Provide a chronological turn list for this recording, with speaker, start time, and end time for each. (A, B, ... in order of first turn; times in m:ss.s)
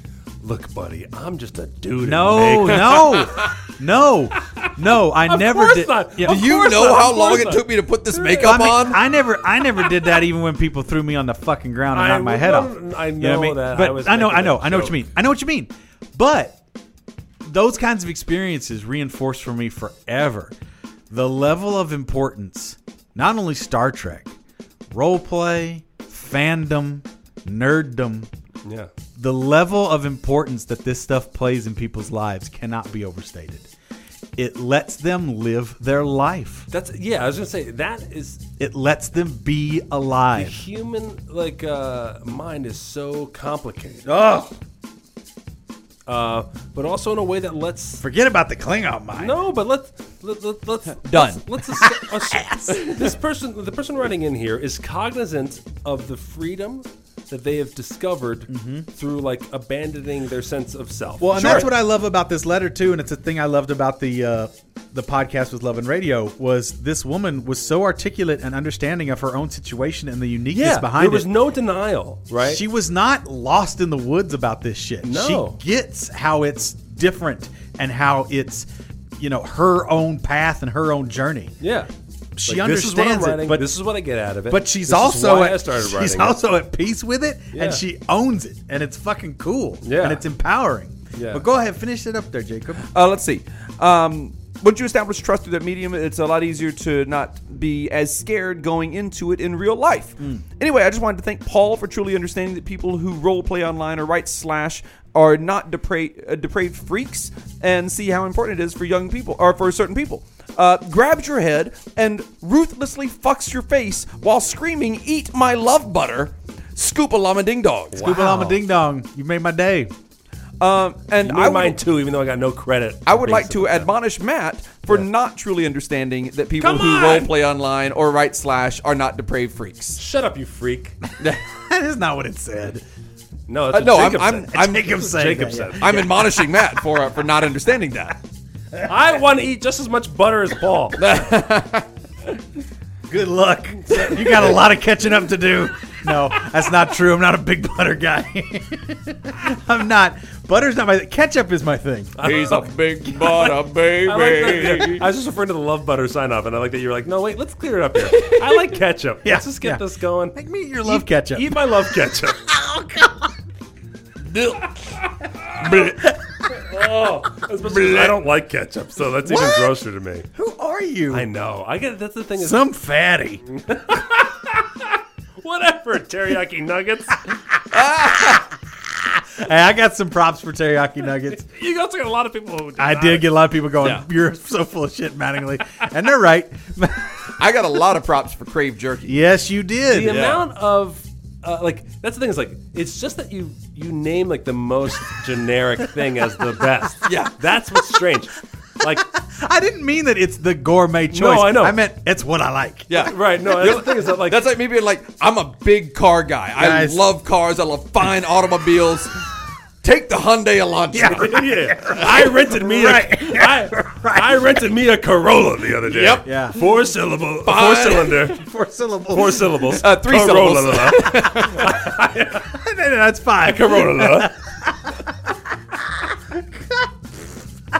0:00.4-0:03.5 A
0:02.0-0:06.4 B
0:04.4-0:09.0 A
0:06.2-0:09.0 C
0:08.4-0:16.6 B
0:11.9-0:15.0 A
0:17.4-0:20.5 B
0:21.1-0:24.3 B
0:24.9-0:28.3 B
0:28.6-0:28.9 A
0:29.2-0:33.7 B
0:34.4-0:36.7 B
0:36.7-0:38.4 A
0:38.6-0:40.6 B
0:40.4-0:44.2 A
0:44.1-0:44.5 B
0:46.1-0:48.0 A
0:48.0-0:49.4 B
0:49.2-1:01.7 A
0:51.0-0:51.4 C
0:51.7-0:53.0 B
0:58.5-0:58.9 B
1:01.2-1:11.3 B
1:01.4-1:01.7 C
1:10.5-1:12.6 A
1:12.4-1:21.6 B
1:15.0-1:15.6 A
1:21.6-1:21.9 A
1:22.4-1:23.7 B
1:22.4-1:26.4 A
1:24.5-1:32.9 B
1:27.5-1:27.8 A
1:29.8-1:30.2 A
1:31.1-1:31.4 A
1:32.9-1:58.0 C
1:40.2-1:40.4 B
1:57.9-1:58.6 A
1:57.9-1:59.9 B
2:00.6-2:01.8 C
2:01.2-2:03.9 A
2:03.0-2:10.0 C
2:06.6-2:07.3 A
2:10.0-2:11.0 A
2:11.4-2:12.8 B
2:13.5-2:16.0 A
2:13.7-2:14.9 C
2:14.5-2:16.6 B
2:15.8-2:18.2 C
2:18.8-2:21.1 A
2:21.0-2:21.9 C
2:23.1-2:32.5 B
2:23.8-2:24.3 A
2:32.2-2:42.5 A
2:32.2-2:35.0 C
2:38.2-2:41.9 B
2:42.5-2:43.3 B
2:44.3-2:44.7 C
2:45.3-2:45.9 A
2:45.6-2:46.6 B
2:46.5-2:50.3 A
2:47.6-2:48.2 B
2:49.2-2:49.7 B
2:50.3-2:51.3 B
2:51.1-2:52.7 A
2:52.4-2:53.4 B
2:53.5-2:57.3 A
2:57.7-2:58.4 C
2:59.2-3:01.4 B
3:01.4-3:03.4 A
3:02.8-3:07.3 B
3:03.8-3:04.0 C
3:07.4-3:09.2 C
3:09.0-3:10.3 B
3:09.9-3:19.1 A
3:10.1-3:10.4 C
3:17.0-3:17.3 C
3:18.8-3:23.1 B
3:21.1-3:21.8 A
3:22.9-3:29.2 C
3:23.0-3:24.4 A
3:26.6-3:27.0 B
3:29.8-3:31.3 C
3:30.9-3:34.6 B
3:31.1-3:38.4 A
3:35.8-3:36.2 C
3:36.2-3:36.6 B
3:37.4-3:38.2 C
3:38.2-3:39.8 B
3:39.1-3:42.5 A
3:39.8-3:41.7 C
3:42.4-3:46.9 B
3:43.4-3:44.3 A